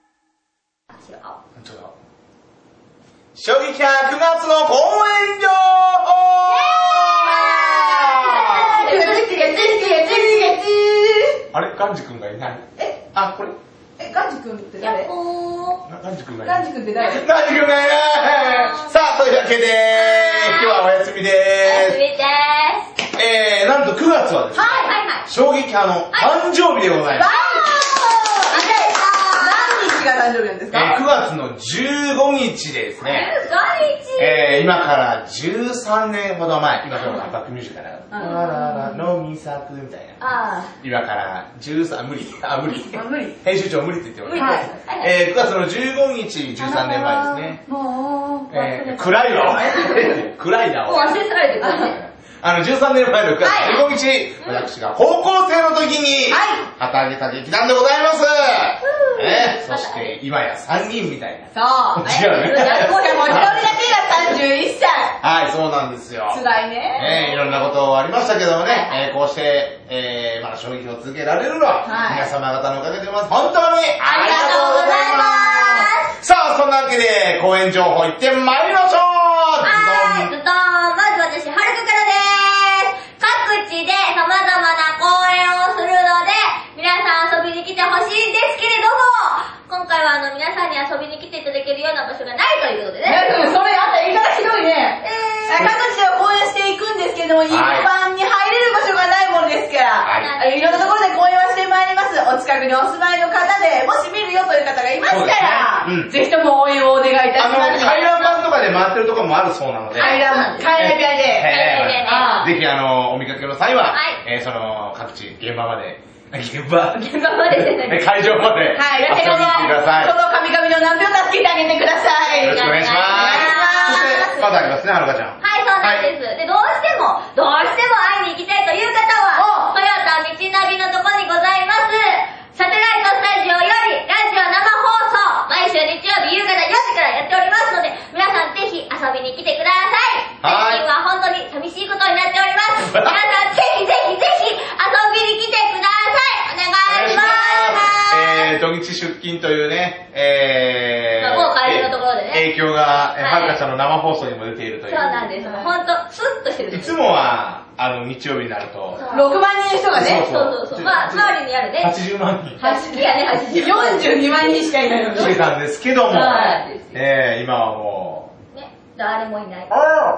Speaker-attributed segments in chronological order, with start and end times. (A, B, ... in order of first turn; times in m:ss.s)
0:00.9-0:01.4 A
0:01.6-0:01.9 B
0:03.3-0:08.9 B
0:06.5-0:08.1 C
0:07.1-0:10.4 A
0:08.6-0:11.4 C
0:11.5-0:13.6 B
0:14.0-0:15.1 C
0:14.8-0:15.8 A
0:15.8-0:22.0 B
0:16.4-0:17.2 C
0:17.8-0:18.9 A
0:19.9-0:20.8 A
0:21.6-0:22.9 A
0:23.1-0:27.3 B
0:24.5-0:24.9 C
0:24.8-0:25.2 A
0:26.1-0:26.4 A
0:27.1-0:29.9 A
0:27.1-0:31.0 C
0:30.7-0:33.3 B
0:33.0-0:34.6 A
0:34.2-0:40.2 B
0:37.0-0:37.3 A
0:38.1-0:38.4 C
0:38.2-0:38.8 A
0:40.2-0:40.7 A
0:40.8-0:47.6 B
0:43.0-0:43.4 C
0:44.2-0:45.2 A
0:44.4-0:44.7 C
0:46.6-0:49.0 C
0:48.5-0:51.2 B
0:50.9-0:52.0 A
0:51.0-0:51.9 C
0:51.8-1:03.8 B
0:53.5-0:53.9 A
0:56.3-0:56.7 C
0:58.8-1:00.2 A
1:01.5-1:05.2 C
1:02.5-1:03.2 A
1:05.2-1:06.4 B
1:06.3-1:07.1 C
1:07.0-1:20.3 B
1:07.0-1:07.7 A
1:08.6-1:09.1 A
1:11.8-1:12.3 C
1:14.2-1:15.0 C
1:14.2-1:16.1 A
1:19.6-1:33.6 A
1:33.0-1:48.0 C
1:35.0-1:35.7 A
1:37.5-1:37.9 B
1:40.0-1:40.3 B
1:40.1-1:40.9 A
1:45.0-1:46.1 B
1:47.4-2:00.1 B
1:47.8-1:48.6 A
1:49.9-1:50.7 A
1:50.0-1:51.5 C
1:51.4-1:52.5 A
1:52.0-1:52.5 C
1:53.9-1:54.2 A
1:56.9-1:58.0 A
1:58.7-2:02.6 C
2:02.4-2:06.1 B
2:02.4-2:04.5 A
2:03.2-2:04.2 C
2:05.4-2:28.5 A
2:09.3-2:09.8 C
2:20.4-2:20.8 B
2:22.8-2:23.4 B
2:26.9-2:35.3 B
2:31.2-2:32.5 A
2:33.1-2:33.6 A
2:34.9-2:37.0 A
2:35.4-2:35.7 C
2:36.7-2:39.0 B
2:38.9-2:39.4 A
2:39.1-2:40.2 C
2:39.9-2:42.6 B
2:40.2-2:41.9 A
2:42.6-2:44.5 A
2:42.6-2:45.3 C
2:45.1-2:45.4 A
2:45.1-2:48.3 B
2:46.1-2:47.0 A
2:48.5-2:49.8 A